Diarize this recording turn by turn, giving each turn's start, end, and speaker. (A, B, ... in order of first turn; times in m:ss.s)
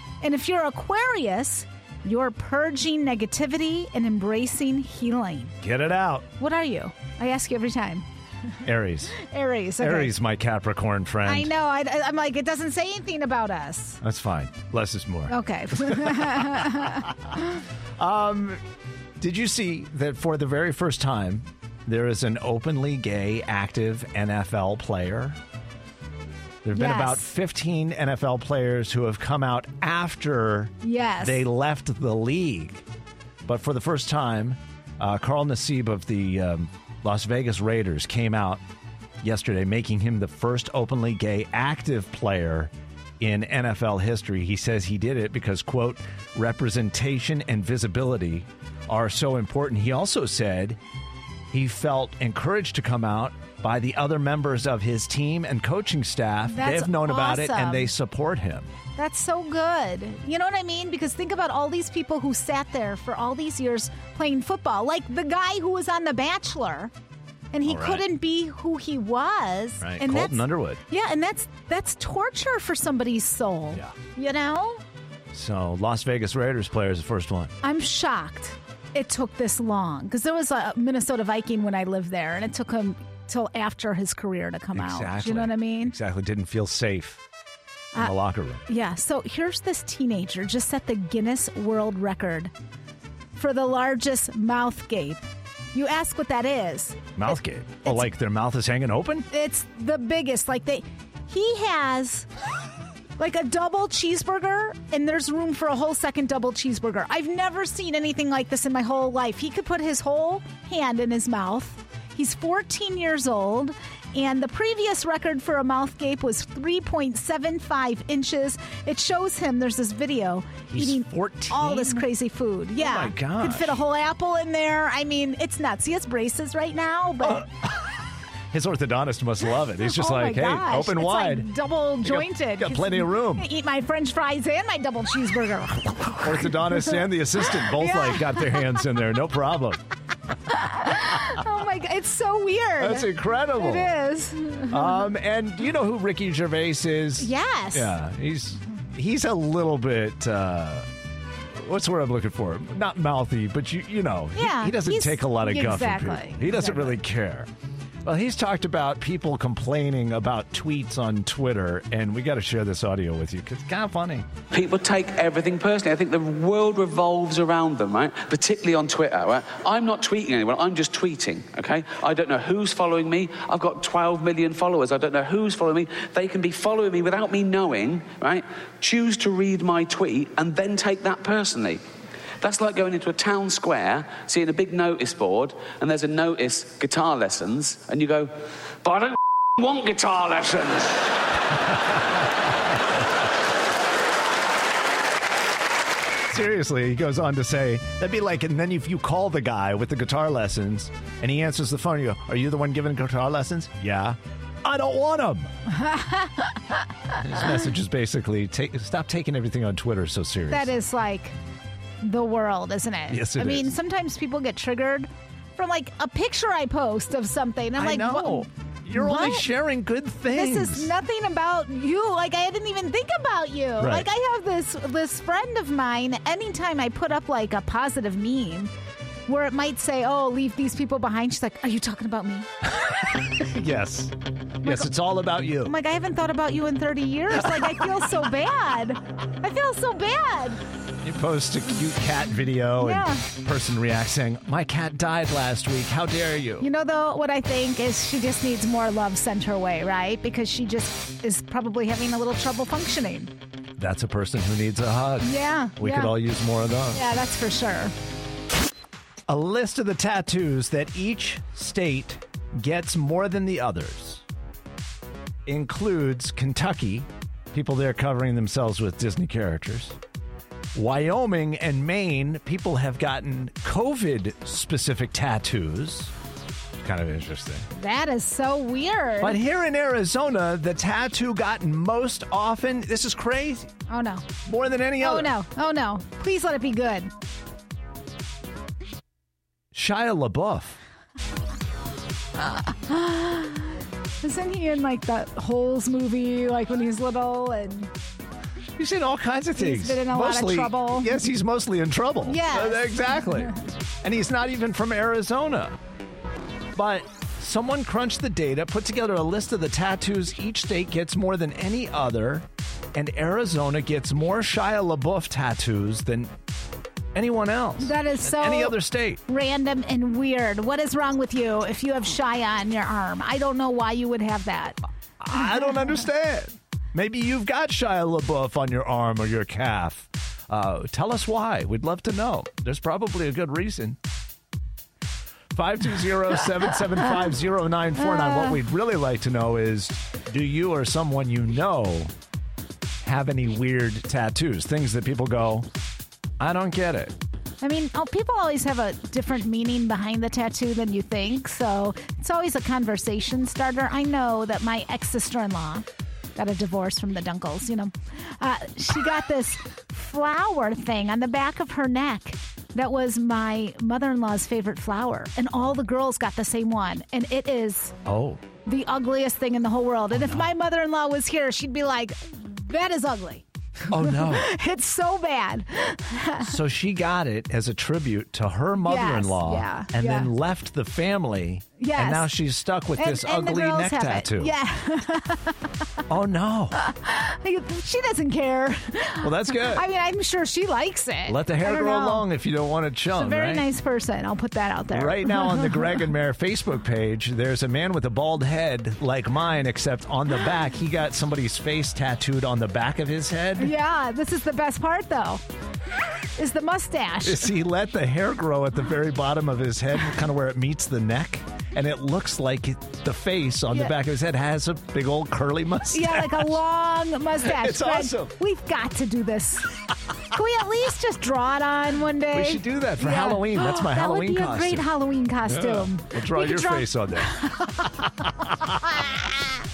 0:00.2-0:05.5 A
0:05.6-0:06.3 B
0:06.4-0:08.0 A
0:08.6-0:09.2 B
0:09.2-0:10.1 A
0:09.8-0:11.5 B
0:11.2-0:14.0 A
0:14.0-0:16.8 B
0:15.3-0:17.4 A
0:18.0-0:18.6 B
0:19.2-0:25.4 B
0:26.6-0:32.8 B
0:26.7-0:27.3 A
0:30.8-0:31.4 A
0:33.4-0:38.6 B
0:39.2-0:50.8 B
0:51.5-0:58.7 B
0:56.5-0:57.9 A
0:59.0-1:06.9 A
1:07.5-1:14.8 A
1:07.6-1:08.1 B
1:09.8-1:10.8 B
1:15.3-1:17.5 B
1:17.6-1:25.9 A
1:24.7-1:27.2 B
1:28.0-1:28.6 B
1:28.7-1:32.5 A
1:33.4-1:38.1 A
1:37.2-1:39.3 B
1:39.3-1:42.3 A
1:43.2-2:07.5 A
2:00.7-2:02.1 B
2:02.8-2:03.8 B
2:07.2-2:07.9 B
2:08.5-2:11.5 B
2:09.8-2:18.7 A
2:12.0-2:13.5 B
2:16.2-2:19.8 B
2:20.5-2:25.0 A
2:22.8-2:23.9 B
2:24.7-2:30.9 B
2:27.2-2:27.9 A
2:31.6-2:37.5 B
2:34.4-2:37.0 A
2:38.0-2:44.3 B
2:44.5-3:01.8 C
3:02.4-3:11.1 C
3:16.2-3:25.5 B
3:25.7-3:26.6 A
3:27.2-3:30.7 B
3:30.5-3:31.3 A
3:32.0-3:39.5 A
3:33.1-3:33.7 B
3:37.8-3:40.9 B
3:40.3-3:48.7 A
3:43.8-3:44.1 B
3:49.3-3:52.5 A
3:52.8-3:55.8 B
3:54.6-3:54.9 A
3:55.6-4:00.6 A
3:57.5-3:57.8 B
4:01.0-4:06.7 B
4:02.8-4:03.2 A
4:06.6-4:13.3 A
4:13.8-4:17.0 B
4:15.2-4:16.1 A
4:16.9-4:17.9 A
4:19.3-4:24.2 B
4:25.4-4:30.0 B
4:30.7-4:36.1 B
4:36.8-4:37.7 B
4:37.8-4:39.4 A
4:39.2-4:43.7 B
4:43.9-4:44.3 A
4:44.4-4:45.3 B
4:45.0-4:47.1 A
4:49.7-4:50.8 B
4:52.4-4:57.9 A
4:58.8-5:05.8 B
4:59.6-5:01.1 A
5:02.2-5:03.5 A
5:06.7-5:16.3 B
5:17.1-5:19.2 B
5:17.8-5:24.8 A
5:25.2-5:34.0 B
5:35.5-5:42.1 B
5:43.0-5:45.7 B
5:46.4-5:47.1 B
5:47.6-6:07.9 A
6:08.0-6:08.4 B
6:08.6-6:16.6 A
6:10.1-6:10.5 B
6:13.9-6:14.5 B
6:16.4-6:24.5 B
6:18.8-6:20.3 A
6:21.8-6:22.3 A
6:23.0-6:25.7 A
6:26.1-6:26.8 B
6:26.8-6:32.2 A
6:29.2-6:29.8 B
6:31.2-6:33.6 B
6:33.1-6:36.0 A
6:34.9-6:43.7 B
6:43.6-6:45.4 A
6:46.4-6:47.5 A
6:47.2-6:56.6 B
6:55.9-6:59.8 A
6:57.4-6:58.3 B
7:00.3-7:07.9 A
7:02.3-7:04.9 B
7:05.4-7:08.8 B